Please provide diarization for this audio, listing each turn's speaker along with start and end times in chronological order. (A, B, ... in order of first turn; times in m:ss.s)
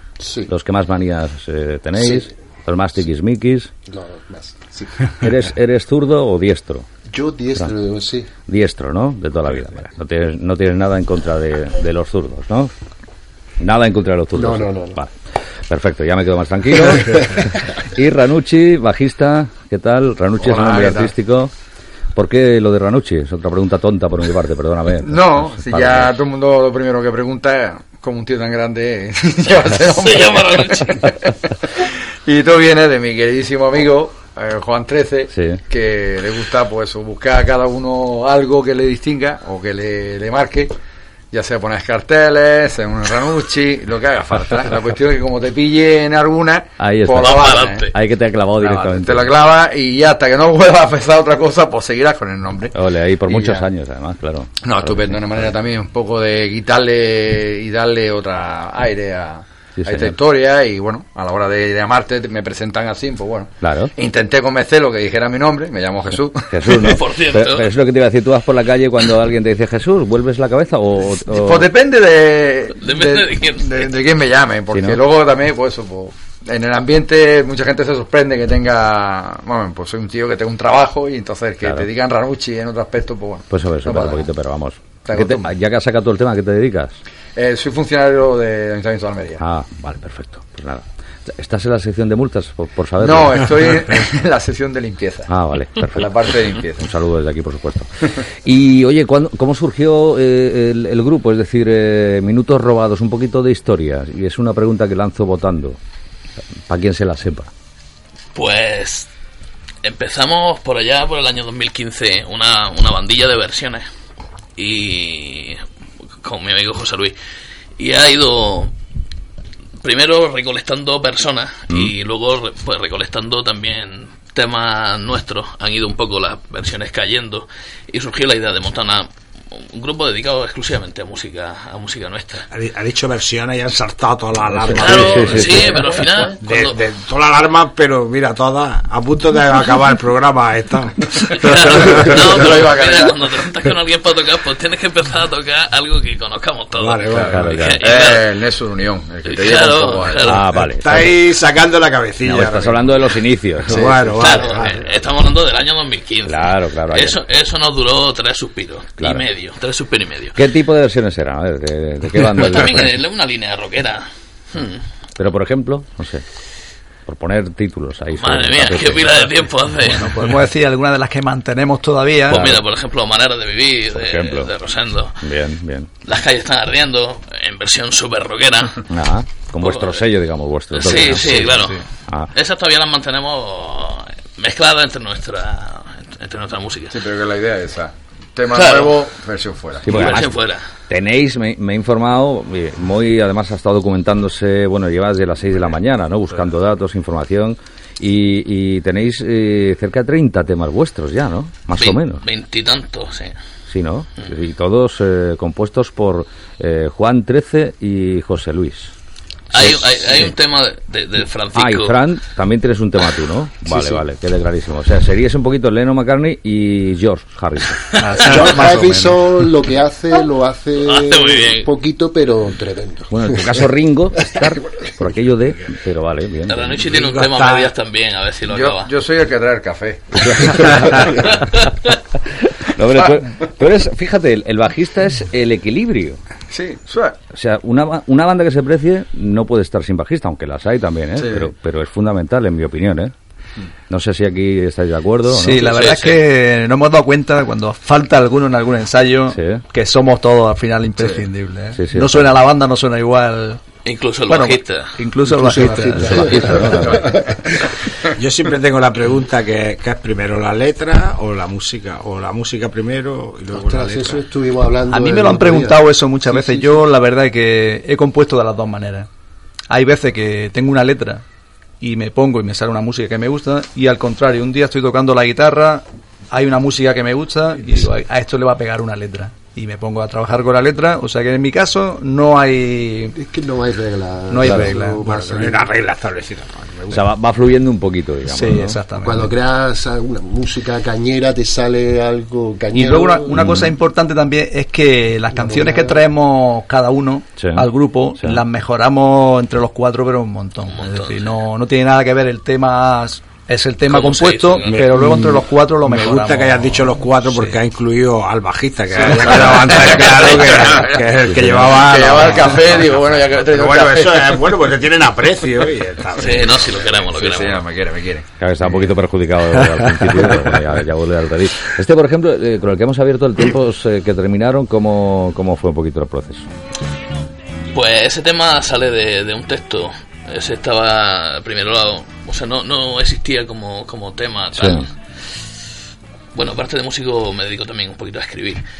0:00.2-0:00.5 A
0:00.5-0:03.7 B
0:01.9-0:02.3 A
0:03.9-0:05.1 A
0:05.2-0:06.9 B
0:07.1-0:08.3 A
0:08.5-0:12.7 B
0:13.6-0:15.1 B
0:14.3-0:15.0 A
0:15.7-0:21.5 B
0:16.9-0:17.4 A
0:20.4-0:21.1 C
0:22.1-0:26.1 B
0:25.0-0:40.7 C
0:29.8-0:31.1 D
0:35.3-0:35.6 B
0:41.3-0:47.9 C
0:46.8-0:49.3 B
0:47.2-0:47.9 D
0:48.6-0:52.7 C
0:52.7-0:55.5 B
0:53.3-0:53.6 C
0:54.6-1:06.8 C
0:59.8-1:00.1 B
1:03.6-1:03.9 B
1:06.5-1:11.7 B
1:06.7-1:07.7 D
1:11.2-1:24.2 C
1:12.8-1:13.9 D
1:14.7-1:15.0 B
1:23.5-1:27.0 B
1:25.0-1:25.5 C
1:27.3-1:29.4 C
1:29.4-1:33.5 B
1:33.0-1:35.3 C
1:35.3-1:45.8 B
1:35.8-1:36.9 C
1:46.7-1:47.5 B
1:48.3-1:49.1 D
1:49.8-1:53.8 D
1:54.6-1:55.6 D
1:56.2-1:57.2 D
1:57.8-1:58.7 D
1:59.8-2:12.5 D
2:12.5-2:15.8 E
2:14.5-2:15.8 B
2:14.7-2:16.8 D
2:16.4-2:22.4 E
2:21.3-2:28.3 D
2:21.6-2:23.2 C
2:26.7-2:27.5 E
2:27.2-2:27.8 B
2:27.8-2:30.3 C
2:29.2-2:30.4 D
2:30.2-2:31.1 B
2:30.5-2:33.0 E
2:32.2-2:33.9 B
2:33.6-2:34.9 E
2:33.7-2:34.5 C
2:34.2-2:40.4 D
2:36.2-2:37.2 B
2:40.4-2:43.0 B
2:42.3-2:44.8 D
2:45.2-2:46.2 B
2:47.0-2:49.3 B
2:48.2-2:50.1 D
2:49.8-2:52.5 F
2:52.3-2:52.6 B
2:52.3-2:55.2 D
2:53.9-2:54.5 B
2:55.2-2:55.9 B
2:56.0-2:58.8 D
2:58.9-3:02.3 B
2:59.6-3:00.0 D
3:00.7-3:01.8 D
3:01.0-3:01.8 F
3:02.3-3:07.0 D
3:06.9-3:10.2 C
3:08.5-3:09.0 D
3:09.8-3:10.4 B
3:09.9-3:10.6 D
3:10.9-3:22.2 B
3:21.8-3:23.3 D
3:23.7-3:28.9 B
3:29.5-3:32.0 D
3:29.5-3:30.3 B
3:31.5-3:37.8 B
3:38.0-3:39.0 F
3:38.1-3:44.9 A
3:38.4-3:38.8 C
3:40.8-3:41.7 D
3:43.1-3:46.9 B
3:46.5-3:48.9 D
3:46.9-3:47.7 E
3:48.5-3:51.4 C
3:50.2-3:51.6 B
3:51.0-3:51.9 D
3:52.2-3:56.2 B
3:56.5-3:57.2 C
3:57.3-4:03.1 B
4:01.2-4:01.5 C
4:03.9-4:05.6 B
4:05.3-4:13.6 F
4:05.6-4:06.2 D
4:09.3-4:09.6 B
4:11.7-4:12.3 B
4:13.8-4:14.9 D
4:14.3-4:17.0 F
4:15.2-4:17.7 A
4:16.0-4:17.0 B
4:18.1-4:24.2 E
4:23.5-4:26.8 A
4:24.9-4:29.1 F
4:29.7-4:31.2 F
4:31.8-4:43.2 F
4:43.1-4:45.7 A
4:44.3-4:45.0 F
4:45.0-4:47.0 E
4:46.9-4:48.8 B
4:48.2-4:49.3 F
4:49.0-4:53.5 A
4:52.7-5:07.6 F
4:53.3-4:53.7 B
4:55.3-4:56.0 A
4:57.4-4:57.7 B
5:00.7-5:01.3 D
5:03.8-5:04.9 D
5:04.7-5:16.9 E
5:09.0-5:11.0 C
5:10.1-5:10.6 D
5:11.3-5:11.7 B
5:11.7-5:14.4 C
5:16.2-5:17.6 D
5:17.1-5:18.3 C
5:18.4-5:26.5 B
5:19.6-5:20.1 E
5:27.7-5:34.9 D
5:34.5-5:34.8 B
5:36.3-5:38.6 D